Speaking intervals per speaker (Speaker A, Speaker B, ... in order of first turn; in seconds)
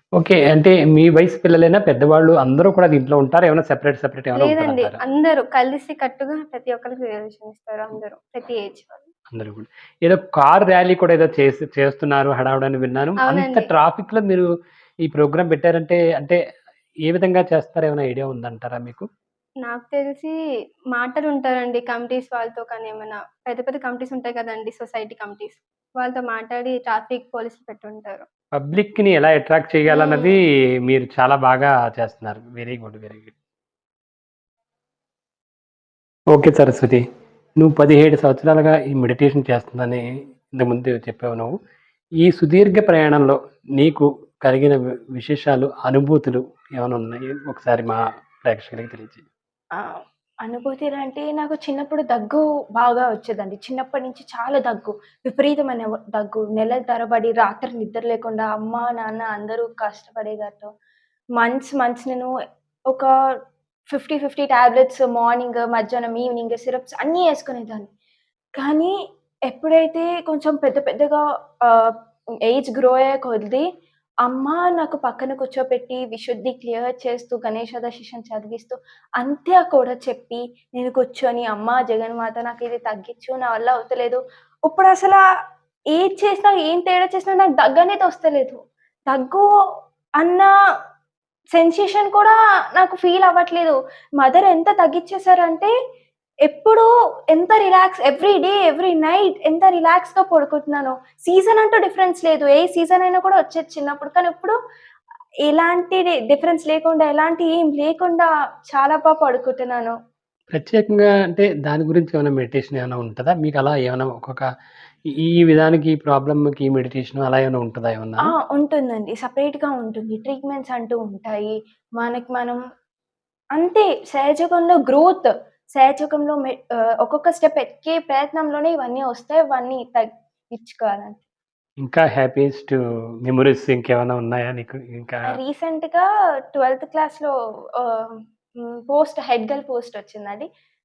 Speaker A: 0.2-5.0, 9.3-14.4, 15.1-16.4, 17.0-19.1, 28.6-33.3, 36.3-37.0, 37.6-41.5, 42.2-49.2, 110.5-114.5, 115.2-118.3, 131.8-135.4
Speaker B: 4.3-9.1, 13.2-13.7, 19.6-20.3, 20.9-28.2, 29.9-30.3
Speaker C: 49.8-60.7, 61.4-62.3, 63.9-67.9, 68.6-68.9, 69.5-71.9, 72.5-73.7, 74.2-85.2, 85.9-89.4, 90.2-90.5, 91.5-95.7, 96.5-104.5, 105.5-110.0, 118.2-122.6, 123.5-131.2, 135.3-138.1, 138.9-140.4